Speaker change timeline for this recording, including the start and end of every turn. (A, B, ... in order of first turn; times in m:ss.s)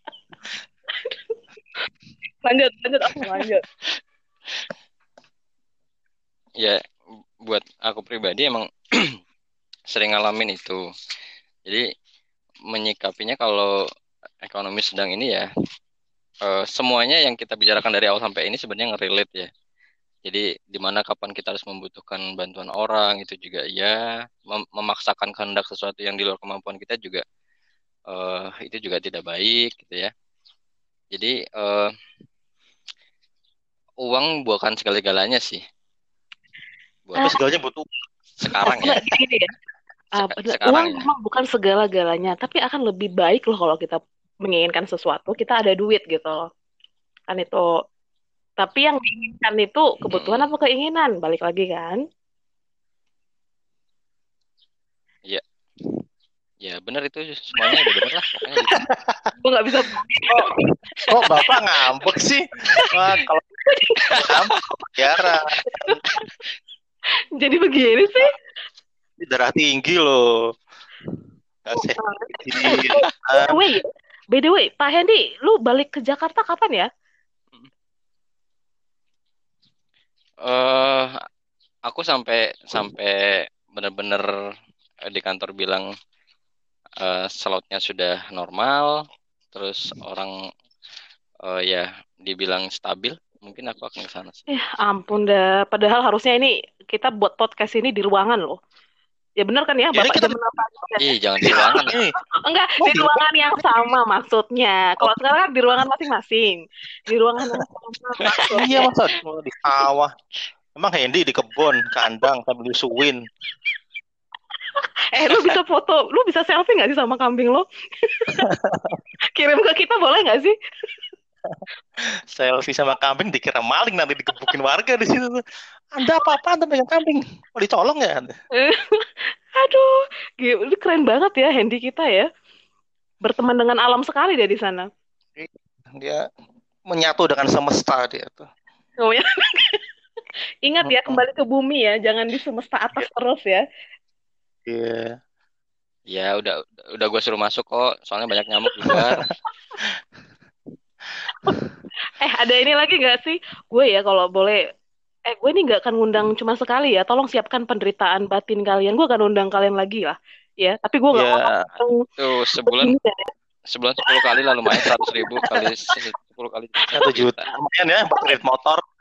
0:01.0-0:01.4 A
0:02.4-0:03.6 A
0:07.4-0:09.2 B
0:09.9-0:10.8 B
0:12.7-0:13.7 B
0:14.5-0:15.5 B
0:16.5-0:19.5 B
0:20.2-0:24.0 B
0:24.5-0:27.2 B
0:28.1-0:30.1 B
0:31.1-0:31.9 B
0:34.0-0:35.6 B
0:37.1-0:37.4 B
0:37.2-0:38.0 C
0:38.4-0:39.0 B
0:38.6-0:39.5 A
0:40.2-0:41.1 B
0:40.2-0:46.5 A
0:47.3-0:47.7 A
0:48.6-0:52.0 A
0:50.1-0:50.5 B
0:56.6-0:58.8 B
0:58.8-0:59.2 C
0:59.4-1:00.4 A
1:01.0-1:03.4 C
1:03.7-1:04.3 A
1:04.2-1:06.0 C
1:05.6-1:06.0 A
1:07.4-1:08.3 A
1:09.2-1:10.3 C
1:11.6-1:13.6 C
1:11.7-1:16.9 A
1:20.4-1:21.1 B
1:21.9-1:24.3 B
1:25.1-1:25.9 B
1:27.0-1:29.0 B
1:29.5-1:30.3 B
1:31.5-1:34.5 B
1:34.5-1:38.6 A
1:39.4-1:48.9 A
1:40.0-1:40.4 C
1:41.0-1:42.0 B
1:41.4-1:42.1 C
1:42.8-1:43.9 C
1:48.6-1:50.1 C
1:50.8-1:53.2 C
1:55.1-1:58.5 A
1:58.4-1:59.0 C
1:59.4-2:00.6 A
2:02.3-2:05.4 C
2:05.9-2:08.4 C
2:08.6-2:12.3 A
2:13.2-2:14.9 A
2:15.4-2:16.2 C
2:16.9-2:18.5 C
2:19.0-2:19.8 A
2:20.6-2:23.6 A
2:20.8-2:21.2 C
2:24.7-2:25.2 C
2:26.1-2:29.2 B
2:28.9-2:29.2 C
2:31.4-2:31.7 C
2:32.2-2:34.6 A
2:35.3-2:42.1 A
2:41.1-2:41.7 C
2:42.2-2:43.0 B
2:42.6-2:43.3 A
2:43.7-2:47.3 B
2:44.1-2:45.5 A
2:46.9-2:47.1 A
2:46.9-2:48.8 C